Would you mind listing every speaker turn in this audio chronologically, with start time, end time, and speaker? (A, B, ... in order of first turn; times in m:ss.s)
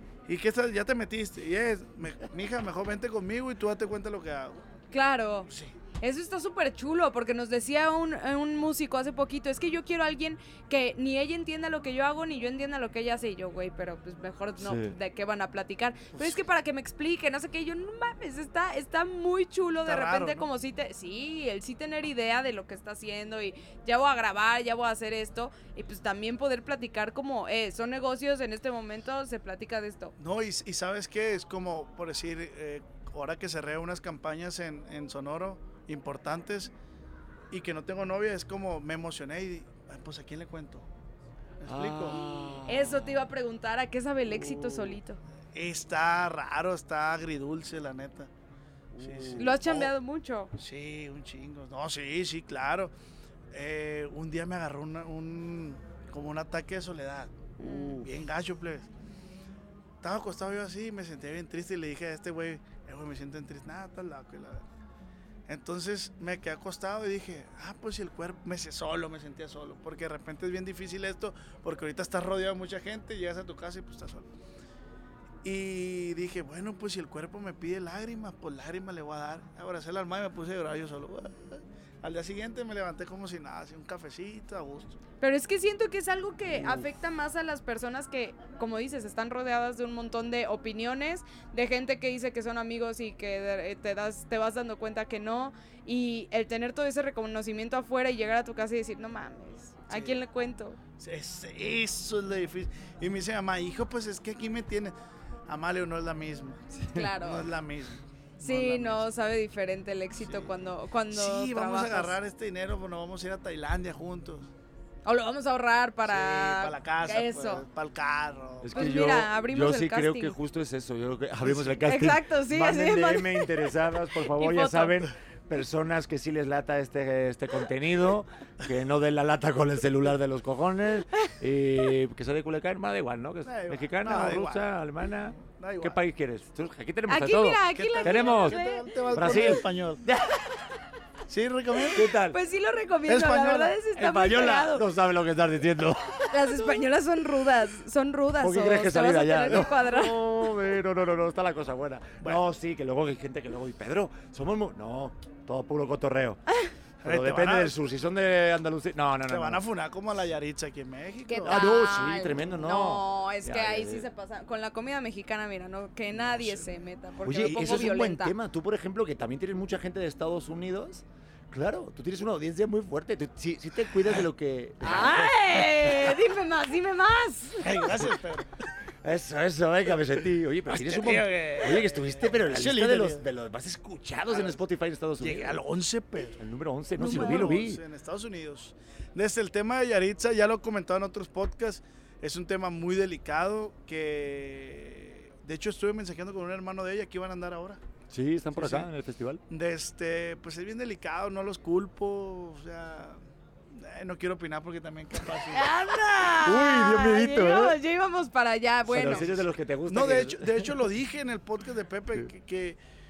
0:00.3-0:04.6 A
0:04.9-0:05.5 B
0:05.5-0:05.7 A
0:06.0-0:30.1 B
0:14.6-0:15.0 C
0:16.1-0:16.4 A
0:19.8-0:20.5 A
0:30.2-0:36.7 A
0:37.5-0:40.9 A
0:41.6-0:42.2 A
0:41.7-0:43.2 C
0:42.6-0:45.2 B
0:44.3-0:45.0 A
0:45.5-0:48.3 A
0:48.9-0:49.6 C
0:49.0-0:49.9 A
0:49.4-0:50.5 B
0:50.6-0:52.9 A
0:53.5-0:58.9 A
0:57.6-0:58.1 B
0:57.6-0:58.0 C
1:00.0-1:04.6 A
1:05.5-1:14.3 A
1:15.4-1:25.0 A
1:25.2-1:40.8 B
1:39.9-1:40.2 A
1:41.0-1:44.9 A
1:45.5-1:49.1 A
1:46.8-1:47.1 C
1:46.9-1:47.5 B
1:48.4-1:52.2 B
1:50.2-1:54.5 A
1:55.0-1:57.7 B
1:56.0-1:58.9 A
1:58.6-2:18.6 C
1:58.7-2:00.4 B
2:01.8-2:03.5 B
2:04.3-2:05.1 B
2:13.4-2:14.7 A
2:15.4-2:16.0 A
2:17.1-2:19.6 B
2:17.7-2:20.0 A
2:19.1-2:20.5 C
2:21.3-2:22.1 A
2:21.9-2:22.4 C
2:22.3-2:24.8 B
2:23.1-2:23.7 A
2:24.0-2:26.6 C
2:26.3-2:30.2 B
2:28.4-2:36.4 C
2:37.0-2:37.8 A
2:37.0-2:39.6 C
2:39.3-2:41.7 A
2:41.3-2:48.3 B
2:41.4-2:44.0 C
2:46.1-2:46.7 A
2:47.2-2:56.1 C
2:54.8-2:57.9 B
2:57.6-2:58.5 A
2:59.0-3:05.6 C
3:00.7-3:03.3 A
3:04.3-3:04.6 A
3:05.2-3:06.4 A
3:06.4-3:07.8 C
3:07.0-3:17.8 A
3:07.0-3:07.6 B
3:18.1-3:19.4 C
3:18.6-3:18.9 A
3:19.5-3:23.2 A
3:23.7-3:25.7 A
3:25.5-3:29.3 B
3:26.4-3:27.8 C
3:28.9-3:30.8 C
3:28.9-3:32.8 A